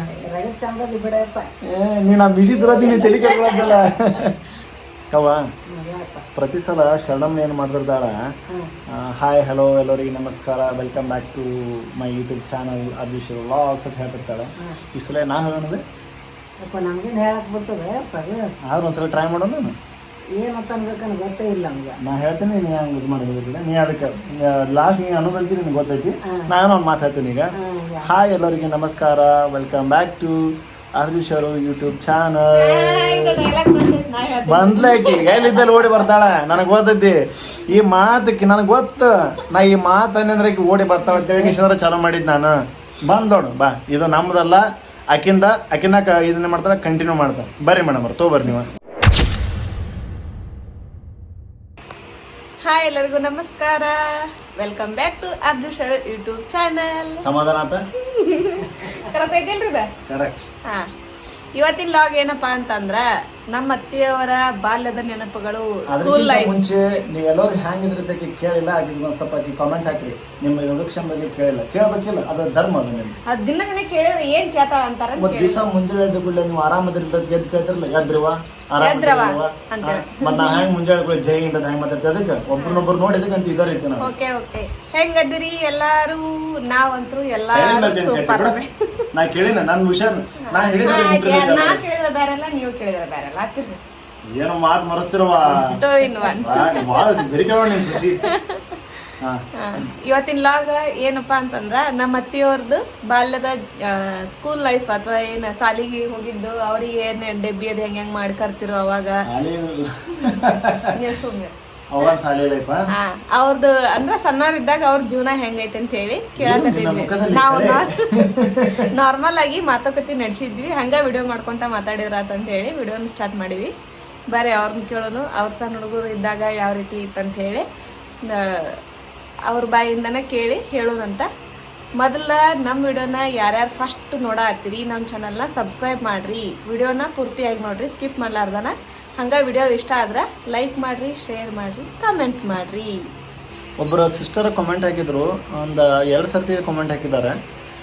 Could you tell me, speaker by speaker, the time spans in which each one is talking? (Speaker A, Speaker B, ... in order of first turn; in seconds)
Speaker A: 0.1-1.4, 5.7-6.2, 16.6-18.5, 20.4-22.0, 27.6-28.1
Speaker B: 1.6-4.3, 5.1-5.4, 6.3-8.2, 8.9-15.8, 18.6-19.7, 22.0-27.5, 28.0-33.4, 34.5-42.5, 43.0-48.7, 57.2-57.8, 60.1-60.5, 65.9-73.1, 75.2-84.1, 87.5-88.6, 89.1-91.8, 94.3-95.8, 96.4-98.2, 109.3-111.0, 111.9-112.8, 116.4-118.8, 143.8-147.3
Speaker C: 32.5-36.0, 52.6-57.2, 58.0-59.9, 61.5-66.5, 73.3-75.6, 78.8-80.7, 82.6-82.9, 84.0-89.1, 90.5-93.8, 95.5-97.2, 97.9-98.8, 99.6-109.2, 110.9-112.1, 112.9-123.7, 124.3-127.7, 128.2-128.8, 129.5-131.3, 132.0-143.0